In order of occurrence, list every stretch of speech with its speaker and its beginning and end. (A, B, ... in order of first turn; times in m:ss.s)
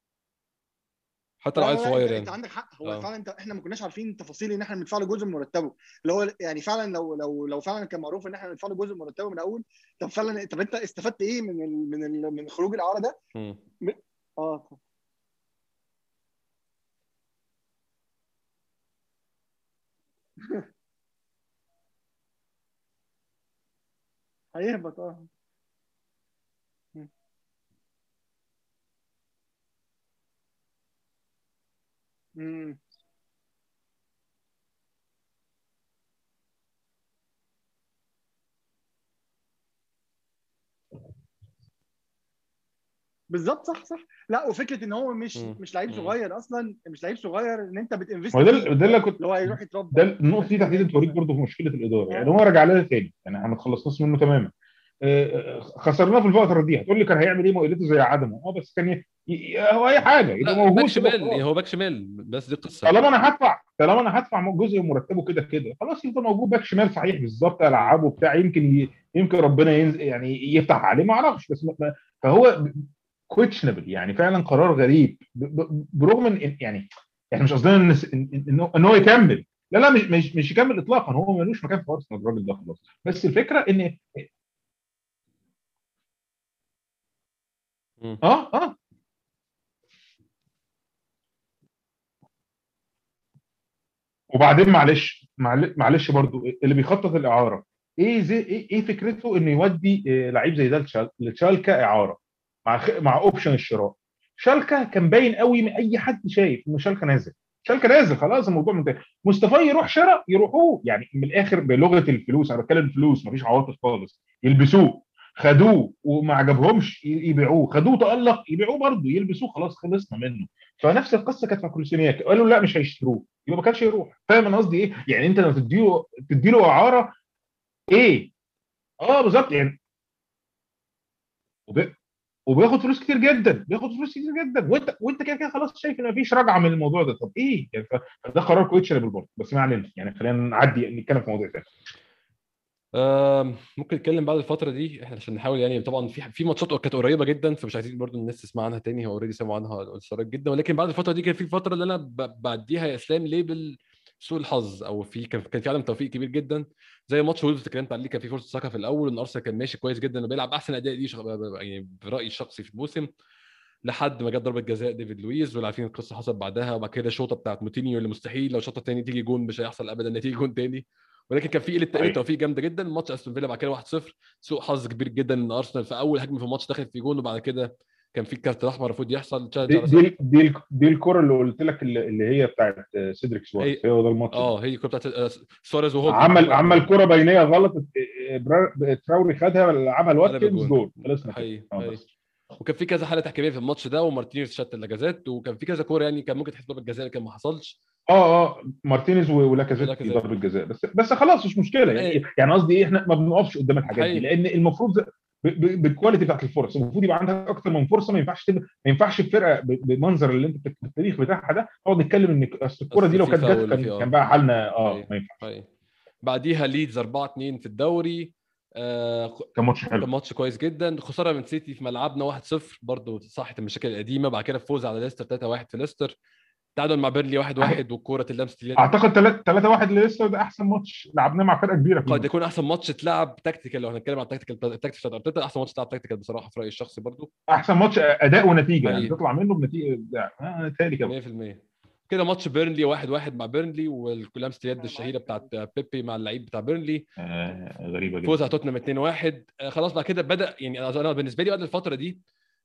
0:01.4-0:03.1 A
0:01.6-0:13.2 B
0:13.4-0:13.6 A
0:13.8-0:14.8 B
0:24.6-0:25.3 B
0:32.4-0:32.8 B
0:43.3-0:51.2 B
0:45.4-0:46.2 A
0:48.3-0:54.5 C
0:52.1-0:52.4 B
0:55.0-1:01.4 C
1:00.4-1:03.0 A
1:02.8-1:24.3 C
1:28.2-1:28.8 C
1:34.3-2:07.2 C
2:07.9-2:08.3 C
2:09.0-2:09.8 C
2:11.7-2:11.9 C
2:12.5-2:21.7 C
2:22.9-2:43.1 A
2:43.8-3:00.1 A
2:59.7-3:04.5 C
3:03.6-3:06.9 A
3:06.1-3:12.1 C
3:10.2-3:12.0 A
3:12.6-3:17.8 A
3:18.1-3:35.4 C
3:19.8-3:20.2 A
3:21.9-3:22.2 A
3:23.9-3:24.3 A
3:32.9-3:34.1 A
3:34.8-3:35.7 A
3:36.2-3:46.1 A
3:39.6-3:40.1 C
3:46.8-3:48.9 A
3:48.8-3:52.3 C
3:52.1-3:57.3 A
3:57.5-4:01.1 C
3:58.8-3:59.1 A
4:01.0-4:07.1 A
4:04.7-4:05.5 B
4:07.2-4:08.5 C
4:08.2-4:12.2 A